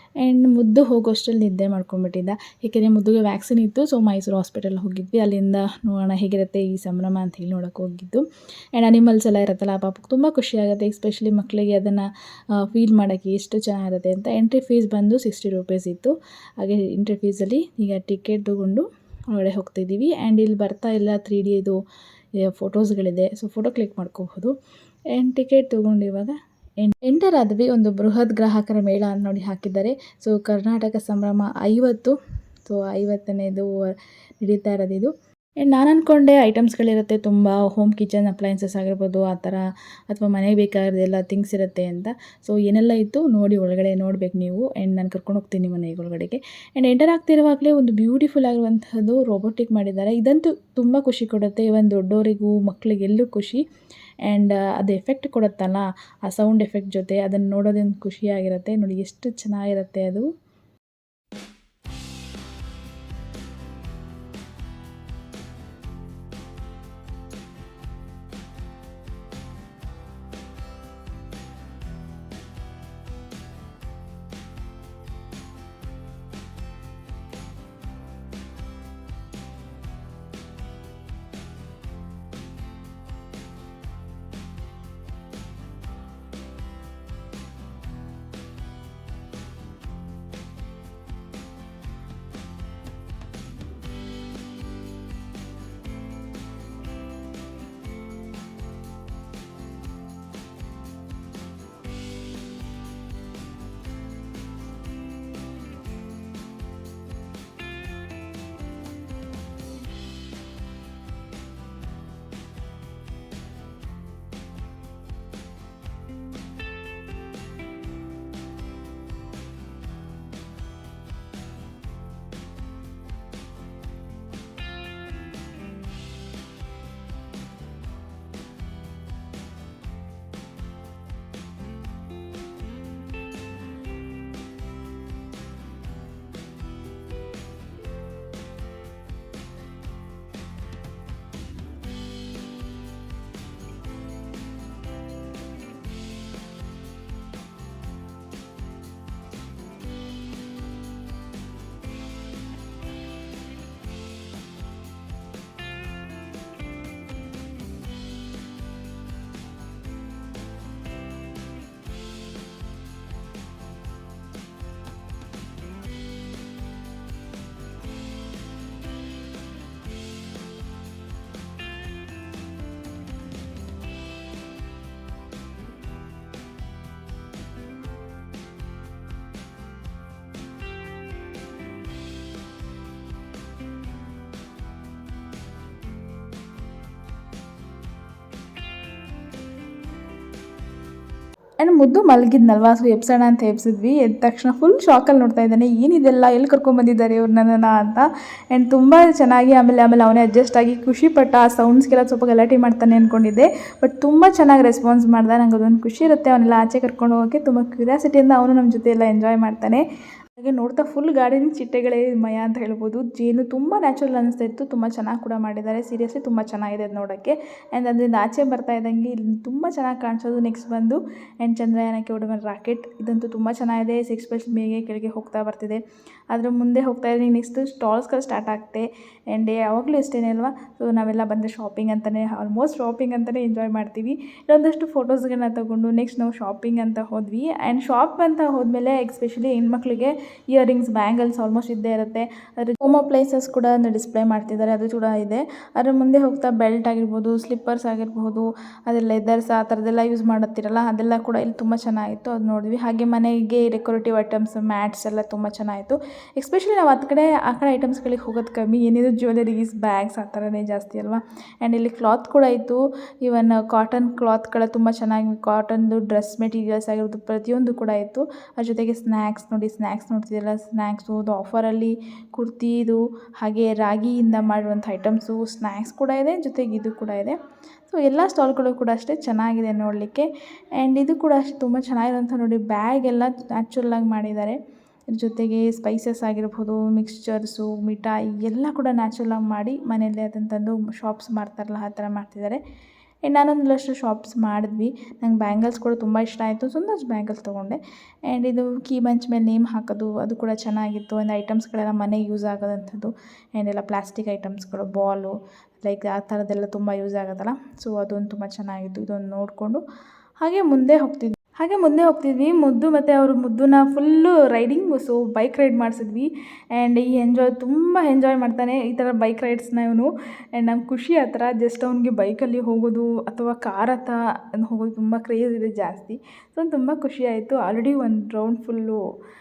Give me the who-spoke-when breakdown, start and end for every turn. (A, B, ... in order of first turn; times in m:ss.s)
0:00.2-0:12.1 A
0:12.6-0:21.8 A
0:22.4-0:24.5 A
0:25.1-0:53.6 A
0:54.2-1:00.3 A
3:11.6-3:29.8 A
3:30.4-4:44.6 A
4:45.1-4:52.6 A
4:53.2-5:09.8 A
5:10.4-5:29.0 A